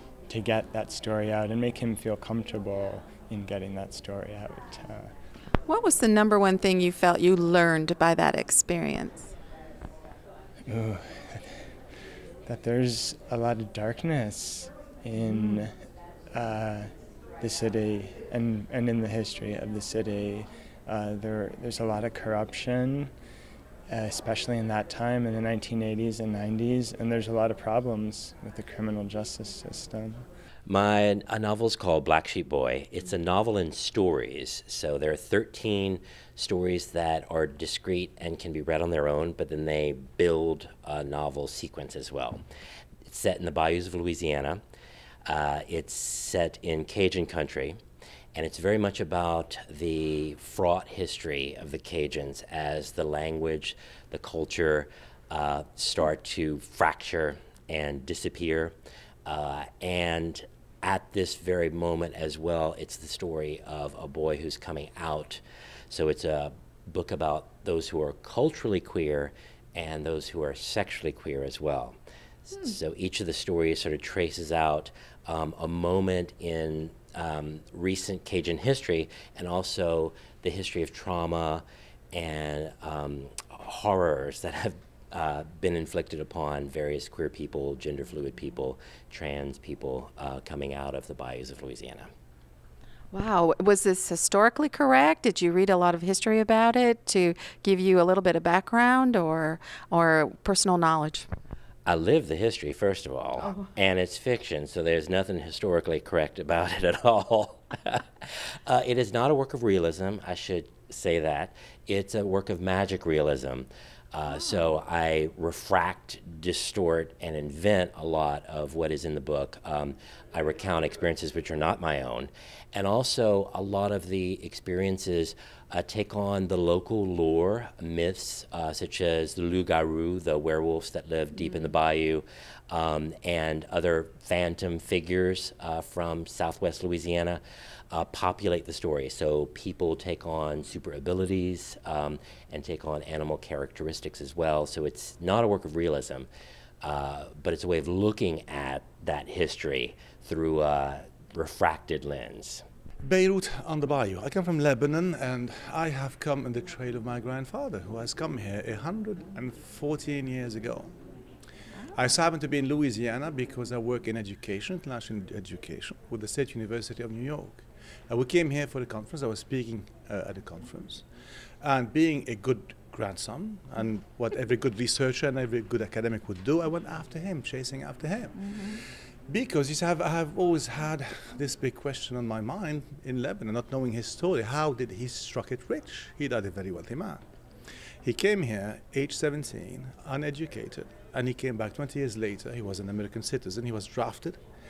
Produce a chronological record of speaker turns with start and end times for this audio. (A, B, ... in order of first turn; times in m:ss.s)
0:00.3-0:05.1 A
0:05.6-0:09.3 B
0:10.7-0:11.4 A
0:12.5-0:15.7 A
0:15.2-0:15.6 B
0:16.3-0:16.9 A
0:17.4-0:23.1 A
0:23.9-0:30.2 A
0:30.7-0:42.4 C
0:43.1-0:44.6 C
0:45.3-0:47.8 C
0:48.3-0:58.7 C
0:59.2-1:11.9 C
1:12.5-1:32.1 C
1:33.1-1:41.3 B
1:41.9-1:47.6 C
1:43.4-1:43.7 B
1:48.7-2:26.3 C
2:11.4-2:11.7 B
2:26.8-2:32.6 C
2:33.0-2:40.9 D
2:41.9-2:51.1 D
2:51.6-3:07.2 D
3:08.0-3:14.4 D